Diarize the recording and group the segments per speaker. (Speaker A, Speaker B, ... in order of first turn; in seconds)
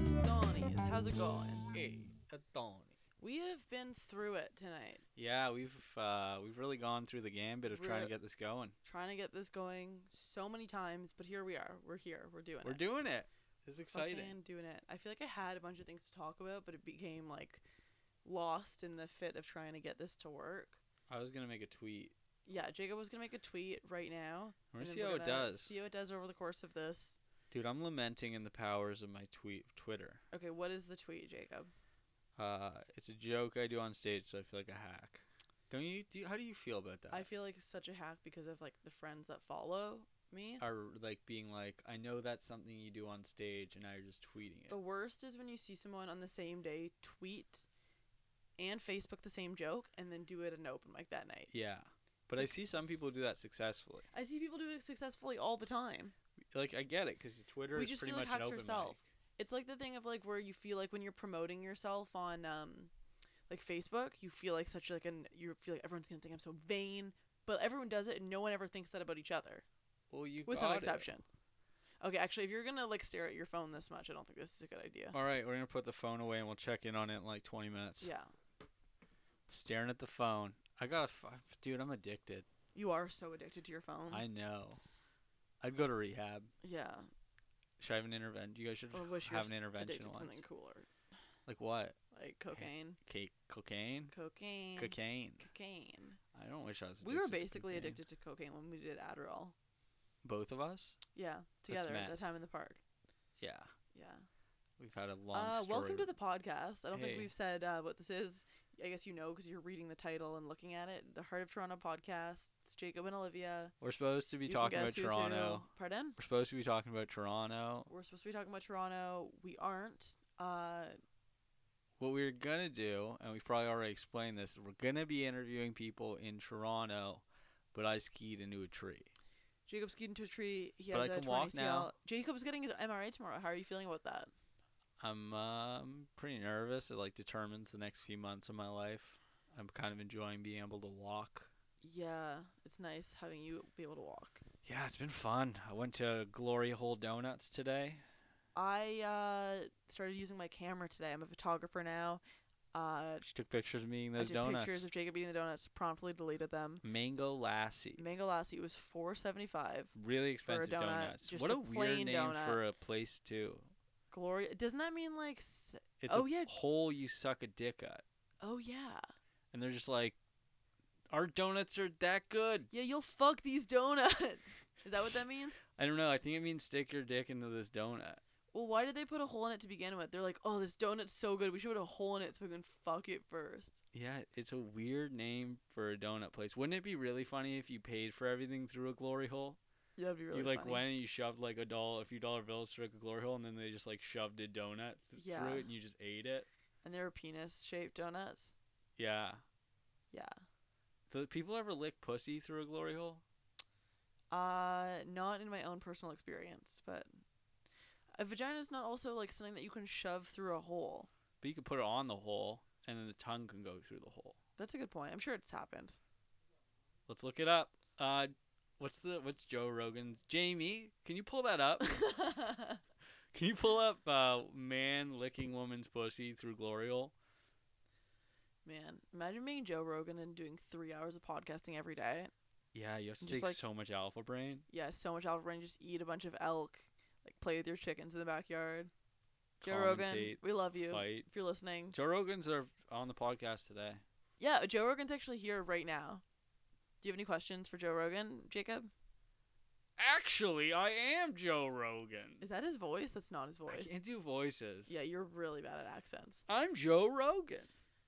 Speaker A: 0.2-1.7, 3.2-5.0, 7.7-8.1, 8.8-12.8, 13.9-17.6, 18.2-20.8, 22.4-27.2, 30.3-31.7, 37.1-40.6, 44.7-47.6, 48.6-51.5, 54.1-56.1, 57.7-62.9, 63.5-69.6, 70.5-71.3, 72.0-75.2, 78.0-78.3, 82.7-84.2, 86.6-87.1, 88.9-90.9, 92.1-93.0, 94.1-96.2, 97.0-99.5, 101.1-102.8, 103.9-104.2, 105.3-113.7, 114.5-116.2, 117.9-120.9, 129.7-134.3, 141.8-144.4, 148.5-152.2, 152.7-153.3, 154.2-156.8, 157.9-159.9, 160.4-162.6, 164.1-166.5, 168.4-169.0, 172.7-175.6, 178.5-183.8, 190.0-190.8, 195.1-195.7, 196.8-198.5, 200.1-200.4, 204.3-207.1, 208.2-211.1, 214.6-216.0, 221.8-222.8, 228.6-232.3, 233.2-233.6, 234.7-238.9, 239.6-241.9, 244.4-246.2, 247.0-248.9, 252.4-253.9, 254.9-256.4
Speaker B: 1.7-2.9, 5.2-8.8, 12.6-14.3, 21.1-22.1, 24.7-25.8, 27.5-30.2, 32.4-37.3, 40.6-44.8, 51.5-54.1, 56.5-59.0, 70.1-71.1, 75.1-78.1, 79.5-82.5, 84.1-84.8, 85.6-86.5, 87.8-90.4, 91.5-92.0, 92.5-94.1, 94.8-95.5, 96.3-98.0, 100.2-101.0, 101.7-102.2, 103.4-103.7, 104.8-106.1, 106.9-107.3, 113.8-117.9, 122.0-129.1, 130.9-131.9, 135.0-141.5, 144.6-148.0, 153.3-154.8, 156.8-158.0, 159.9-163.7, 166.0-168.0, 169.5-170.2, 171.1-172.7, 175.7-178.2, 183.9-189.6, 190.3-196.5, 199.0-199.4, 201.1-203.2, 211.4-214.4, 217.1-222.5, 223.3-227.1, 232.7-234.7, 239.6-241.3, 241.9-244.0, 250.0-252.4, 253.7-254.9, 256.5-257.7